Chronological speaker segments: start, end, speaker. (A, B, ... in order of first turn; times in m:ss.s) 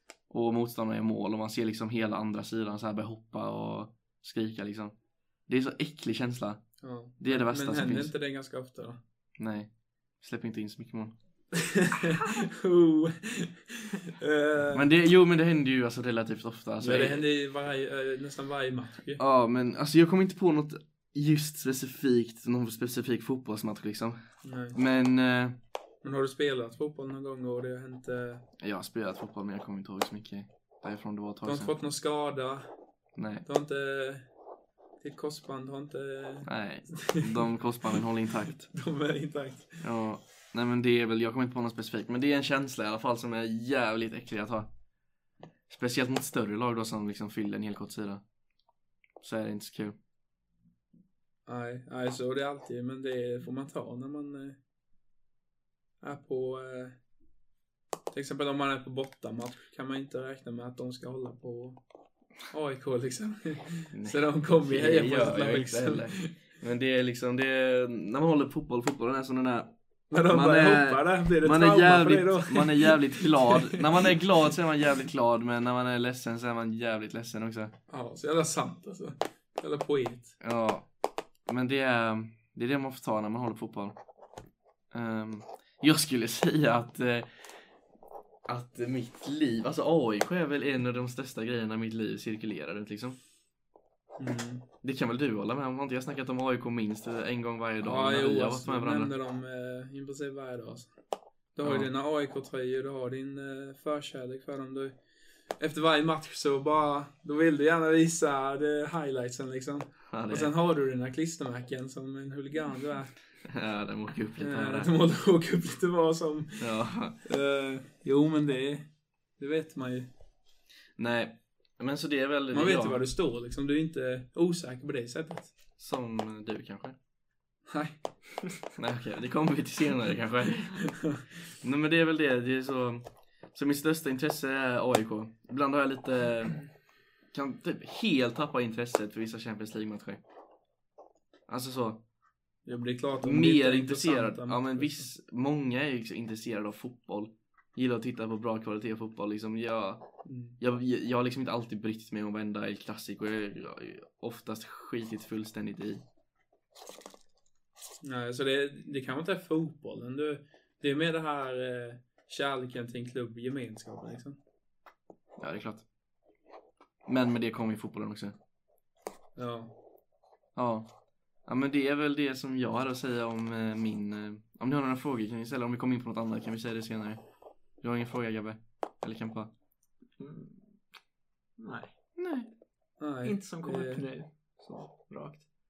0:00.3-0:04.9 A
0:05.5-0:08.1 A
0:06.8-0:09.0 B
0:09.4-0:11.1 A
0:11.5-0:14.8 B
0:14.7-0:17.2 A
0:16.8-0:19.2 B
0:19.2-0:24.2 A
0:24.4-0:24.8 B
0:24.7-0:25.6 A
0:26.0-0:28.4 B
0:28.6-0:31.7 A
0:31.4-0:32.7 B
0:33.2-0:33.4 A
0:33.4-0:34.2 B
0:35.0-0:37.3 B
0:36.4-0:38.6 A
0:38.7-0:39.8 B
0:39.8-0:44.7 A
0:45.7-0:48.2 A
0:49.2-0:50.0 A
0:51.5-0:54.6 B
0:56.0-0:57.0 B
0:58.1-1:01.8 B
1:02.5-1:06.3 B
1:03.9-1:09.7 A
1:10.1-1:14.1 B
1:10.3-1:17.7 A
1:17.9-1:20.3 B
1:20.4-1:20.8 A
1:21.5-1:24.0 A
1:24.9-1:27.3 A
1:28.5-1:33.2 A
1:34.2-1:34.6 B
1:34.8-1:39.1 A
1:37.8-1:40.9 B
1:41.5-1:44.9 B
1:41.6-1:41.9 A
1:45.6-1:53.1 B
1:50.1-1:50.5 A
1:53.4-1:54.9 A
1:54.4-1:56.7 B
1:56.6-1:57.2 A
1:57.2-2:00.1 B
2:01.0-2:03.0 A
2:02.5-2:05.5 B
2:05.8-2:07.0 A
2:07.7-2:07.9 B
2:08.8-2:10.9 A
2:10.9-2:11.2 B
2:11.6-2:16.6 A
2:17.3-2:20.2 A
2:21.5-2:22.0 A
2:22.6-2:25.1 B
2:23.2-2:30.0 A
2:30.2-2:30.6 B
2:30.6-2:36.0 A
2:38.0-2:44.4 B
2:45.4-2:45.8 A
2:47.0-2:48.3 A
2:49.4-2:49.7 B
2:50.5-2:50.9 A
2:51.4-2:57.2 A
2:57.8-2:59.5 A
3:00.2-3:00.6 C
3:01.6-3:01.9 C
3:02.2-3:02.5 A
3:03.0-3:04.0 B
3:03.2-3:05.4 C